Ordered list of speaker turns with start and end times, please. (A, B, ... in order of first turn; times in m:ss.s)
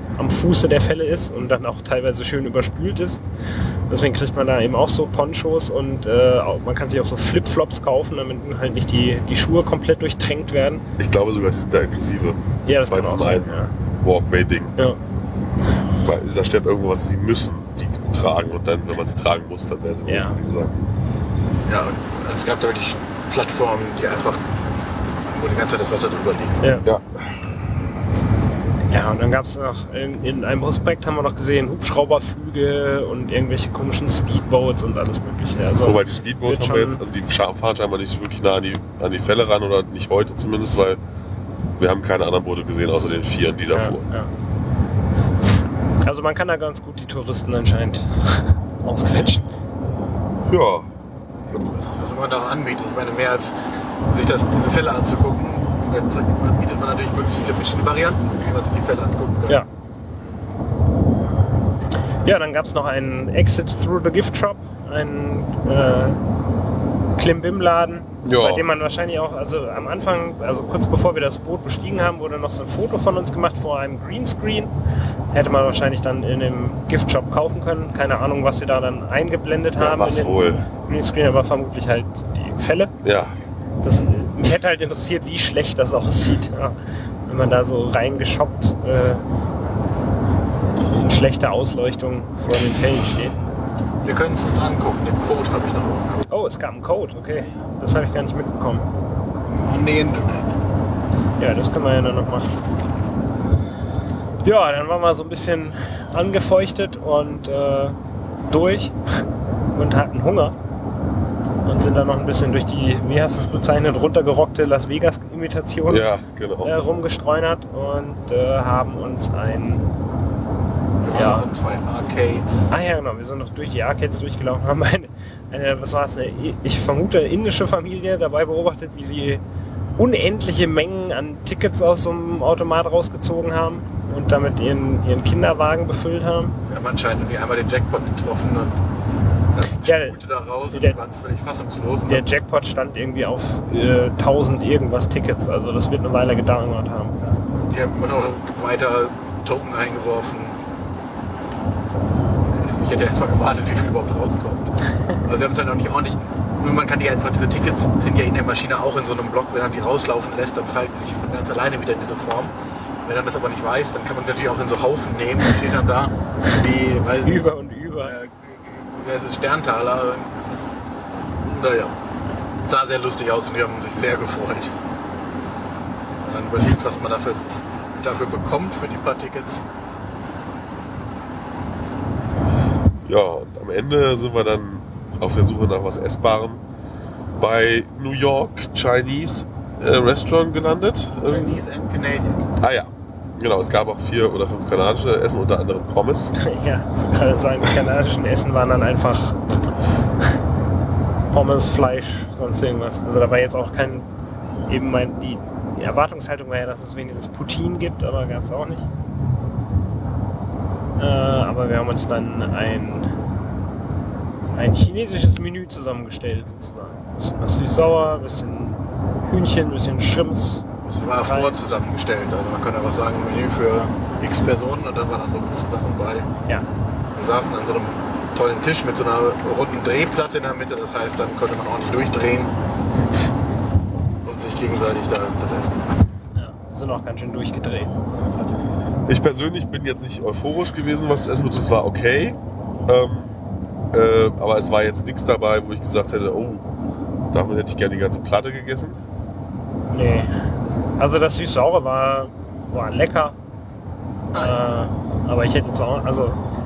0:00.2-0:03.2 A
0:03.9-0:10.8 A
0:11.0-0:14.8 B
0:12.6-0:13.7 A
0:16.0-0:20.8 B
0:20.1-0:20.4 A
0:21.7-0:24.4 C
0:25.3-0:26.6 C
0:26.8-0:27.3 B
0:28.9-0:37.0 A
0:35.8-0:41.0 B
0:41.8-0:44.1 B
0:43.7-0:44.3 A
0:46.0-0:49.5 A
0:50.5-0:50.9 B
0:51.5-0:51.8 B
0:51.7-0:59.6 C
1:02.2-1:06.2 A
1:07.2-1:14.7 A
1:08.2-1:08.7 B
1:15.3-1:22.9 A
1:19.8-1:20.6 B
1:23.0-1:23.4 B
1:23.8-1:26.8 A
1:27.3-1:29.3 A
1:30.9-1:33.4 A
1:34.0-1:36.3 C
1:36.3-1:38.9 A
1:39.6-1:40.5 C
1:41.4-1:42.5 A
1:44.4-1:49.0 A
1:49.7-1:50.6 A
1:51.6-1:56.1 A
1:55.9-1:56.7 B
1:56.6-1:59.9 A
2:01.0-2:02.7 C
2:01.1-2:01.5 A
2:02.7-2:09.4 A
2:10.0-2:16.6 A
2:16.7-2:18.8 C
2:19.6-2:22.3 C
2:19.8-2:21.0 A
2:22.1-2:27.2 A
2:27.7-2:30.6 C
2:32.5-2:34.7 C
2:35.2-2:47.5 C
2:47.2-2:48.2 A
2:48.0-2:50.4 C
2:51.4-2:52.0 C
2:52.6-2:54.8 C
2:56.2-2:59.6 C
3:03.0-3:06.6 B
3:07.4-3:11.6 B
3:11.2-3:12.5 C
3:12.6-3:16.3 B
3:16.4-3:19.4 A
3:21.3-3:24.1 A
3:24.7-3:28.9 A
3:31.0-3:33.1 A
3:34.6-3:40.6 A
3:40.8-3:46.3 C
3:41.2-3:41.6 A
3:47.2-3:52.6 C
3:54.2-3:55.9 C
3:56.4-3:58.0 A
3:59.1-4:03.4 B
4:03.9-4:06.7 B
4:07.3-4:09.0 B
4:09.9-4:10.3 A
4:11.0-4:13.4 A
4:14.3-4:16.4 A